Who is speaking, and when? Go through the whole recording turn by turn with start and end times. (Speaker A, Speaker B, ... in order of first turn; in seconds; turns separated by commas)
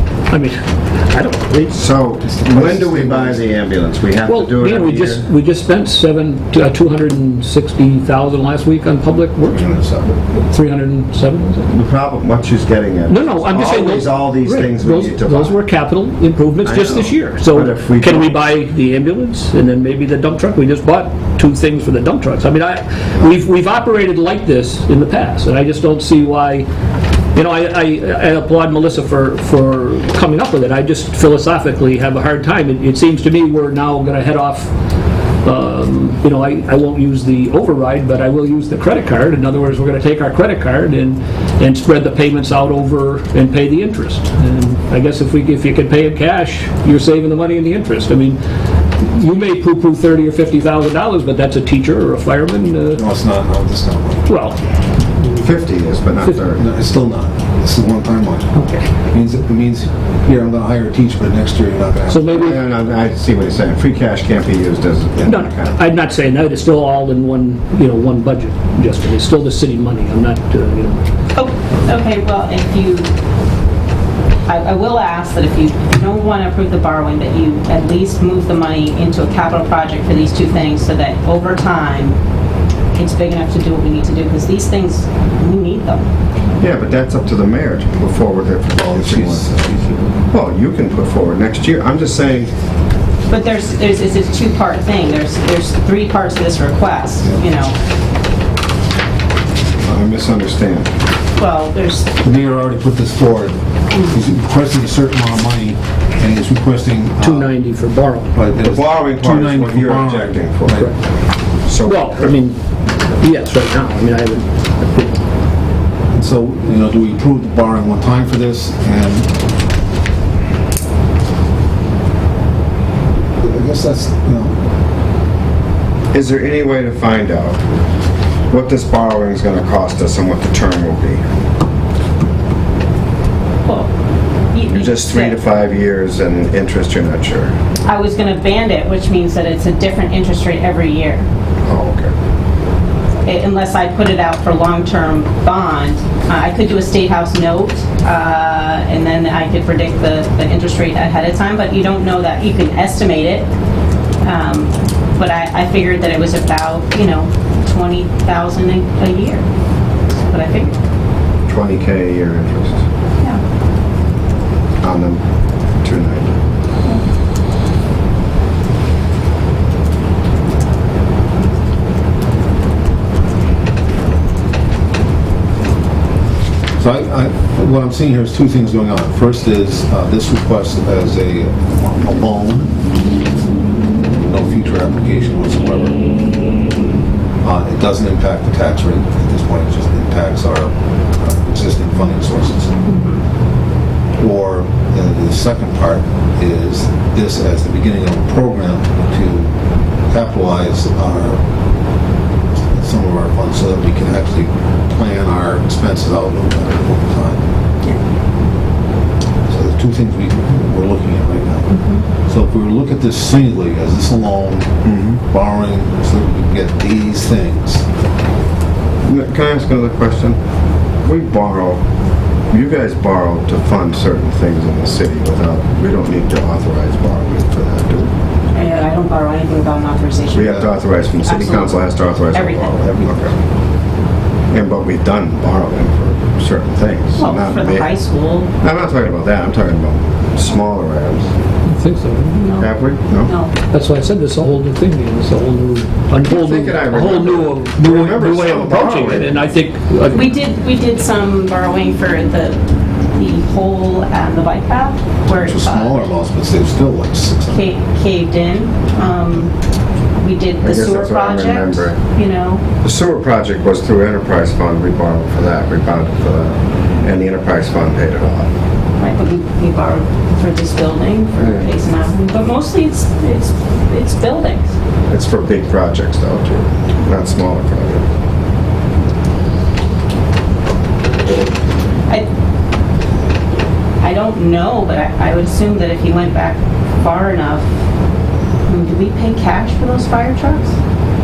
Speaker A: 0.3-1.8, Speaker B: 1.7-5.2, Speaker C: 2.2-3.5, Speaker A: 4.3-9.7, Speaker C: 9.4-10.2, Speaker A: 10.3-11.7, Speaker B: 11.7-15.6, Speaker A: 13.1-26.7, Speaker B: 16.6-18.3, Speaker A: 27.3-34.7, Speaker A: 35.4-48.4, Speaker A: 49.0-53.0, Speaker C: 52.9-54.3, Speaker A: 54.3-54.6, Speaker B: 55.2-56.6, Speaker C: 56.5-62.3, Speaker A: 62.1-62.6, Speaker B: 62.3-65.8, Speaker A: 65.2-71.0, Speaker D: 71.3-73.1, Speaker D: 74.5-82.2, Speaker D: 82.9-86.0, Speaker B: 86.6-89.5, Speaker C: 88.8-90.1, Speaker B: 90.3-92.5, Speaker D: 93.3-97.8, Speaker B: 99.8-100.9, Speaker D: 101.3-102.1, Speaker C: 102.2-107.5, Speaker A: 107.2-108.3, Speaker C: 108.3-110.9, Speaker B: 108.6-110.9, Speaker B: 111.7-112.3, Speaker A: 111.8-112.6, Speaker A: 113.2-115.1, Speaker C: 116.1-119.3, Speaker C: 123.4-124.6, Speaker B: 126.1-127.6, Speaker B: 128.5-131.2, Speaker D: 133.6-133.9, Speaker D: 134.5-135.4, Speaker B: 134.7-137.5, Speaker D: 137.8-141.2, Speaker B: 141.6-142.1, Speaker D: 143.2-153.5, Speaker D: 154.2-159.4, Speaker D: 160.3-160.8, Speaker B: 161.5-162.8, Speaker B: 164.8-165.2, Speaker B: 165.8-166.3, Speaker C: 176.8-182.7, Speaker C: 184.2-186.0, Speaker C: 187.4-192.8, Speaker D: 192.9-193.2, Speaker C: 194.2-199.5, Speaker C: 200.1-201.4, Speaker C: 202.7-207.4, Speaker C: 209.5-211.7, Speaker D: 211.7-212.0, Speaker C: 212.2-217.8, Speaker B: 214.8-215.2, Speaker B: 219.0-220.4, Speaker B: 221.0-221.8, Speaker B: 222.5-228.1, Speaker D: 228.5-230.7, Speaker B: 230.3-233.3, Speaker D: 231.2-232.8, Speaker B: 234.5-237.9, Speaker D: 237.2-238.5, Speaker B: 238.6-241.3, Speaker A: 241.6-242.4, Speaker D: 242.3-242.7, Speaker B: 242.6-243.3, Speaker D: 243.3-243.5, Speaker A: 243.7-250.3, Speaker B: 246.2-249.4, Speaker D: 250.1-256.1, Speaker C: 255.3-257.7, Speaker D: 257.5-259.5, Speaker D: 260.2-262.6, Speaker B: 260.6-262.0, Speaker B: 262.8-268.5, Speaker D: 269.0-274.7, Speaker B: 271.4-271.7, Speaker B: 275.1-278.1, Speaker D: 284.0-287.7, Speaker D: 288.7-290.8